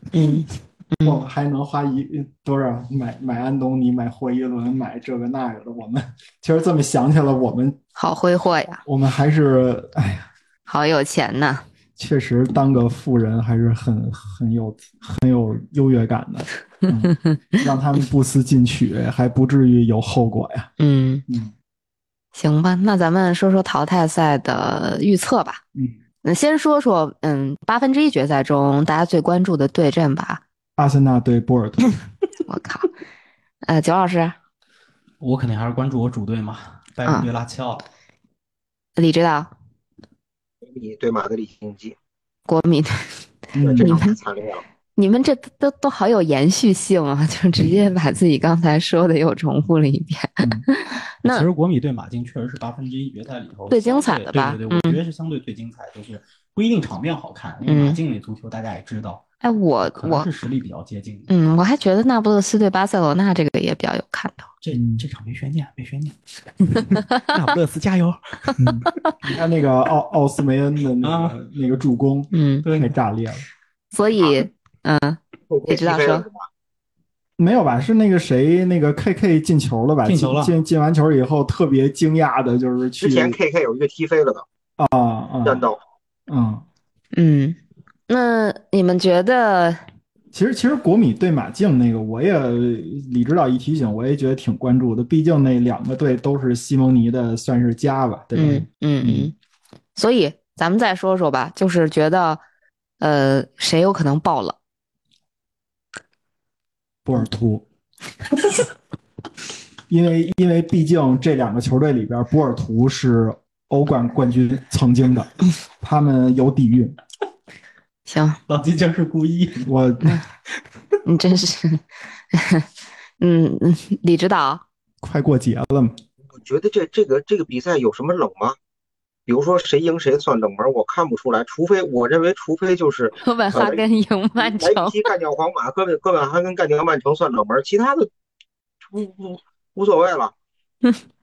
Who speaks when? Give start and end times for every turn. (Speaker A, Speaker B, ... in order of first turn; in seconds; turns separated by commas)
Speaker A: 0.1-1.2, Speaker B: 1.0-7.8, Speaker A: 8.0-8.8, Speaker B: 8.8-10.3, Speaker A: 10.7-11.6, Speaker B: 12.0-20.7, Speaker A: 17.2-17.6, Speaker A: 20.8-21.2, Speaker B: 21.3-21.5, Speaker A: 22.3-25.6, Speaker A: 26.2-30.4, Speaker B: 30.8-31.9, Speaker A: 32.5-32.9, Speaker A: 33.6-34.4, Speaker C: 35.2-37.8, Speaker A: 39.0-39.5, Speaker D: 40.6-42.0, Speaker A: 42.5-43.2, Speaker B: 43.5-44.0, Speaker D: 43.6-44.6, Speaker A: 43.8-44.2, Speaker A: 45.0-51.5, Speaker B: 50.4-50.6, Speaker C: 51.2-59.2, Speaker A: 53.7-55.0, Speaker A: 57.7-58.0, Speaker A: 59.4-60.3, Speaker C: 59.9-61.3, Speaker A: 61.3-64.5, Speaker C: 64.6-68.8, Speaker B: 64.7-65.0, Speaker B: 68.6-73.5, Speaker C: 71.0-71.4, Speaker A: 72.3-72.7, Speaker C: 72.6-72.9, Speaker A: 73.9-76.2, Speaker D: 75.5-76.5, Speaker B: 77.4-83.4, Speaker C: 80.0-80.5, Speaker D: 83.0-84.5, Speaker B: 84.8-85.7, Speaker D: 85.4-85.8, Speaker B: 86.3-86.7, Speaker A: 87.1-87.6, Speaker A: 88.1-89.8, Speaker B: 90.3-99.3, Speaker A: 98.3-99.3, Speaker A: 100.0-102.4, Speaker A: 103.0-104.6, Speaker B: 107.0-107.7, Speaker B: 109.9-117.0, Speaker A: 118.1-118.4, Speaker C: 118.5-119.7, Speaker B: 119.6-120.2, Speaker A: 121.0-122.7, Speaker A: 123.2-124.6, Speaker B: 125.0-125.9, Speaker D: 126.3-128.6, Speaker D: 129.3-133.8, Speaker A: 133.2-135.0, Speaker D: 134.4-138.1, Speaker D: 138.9-140.3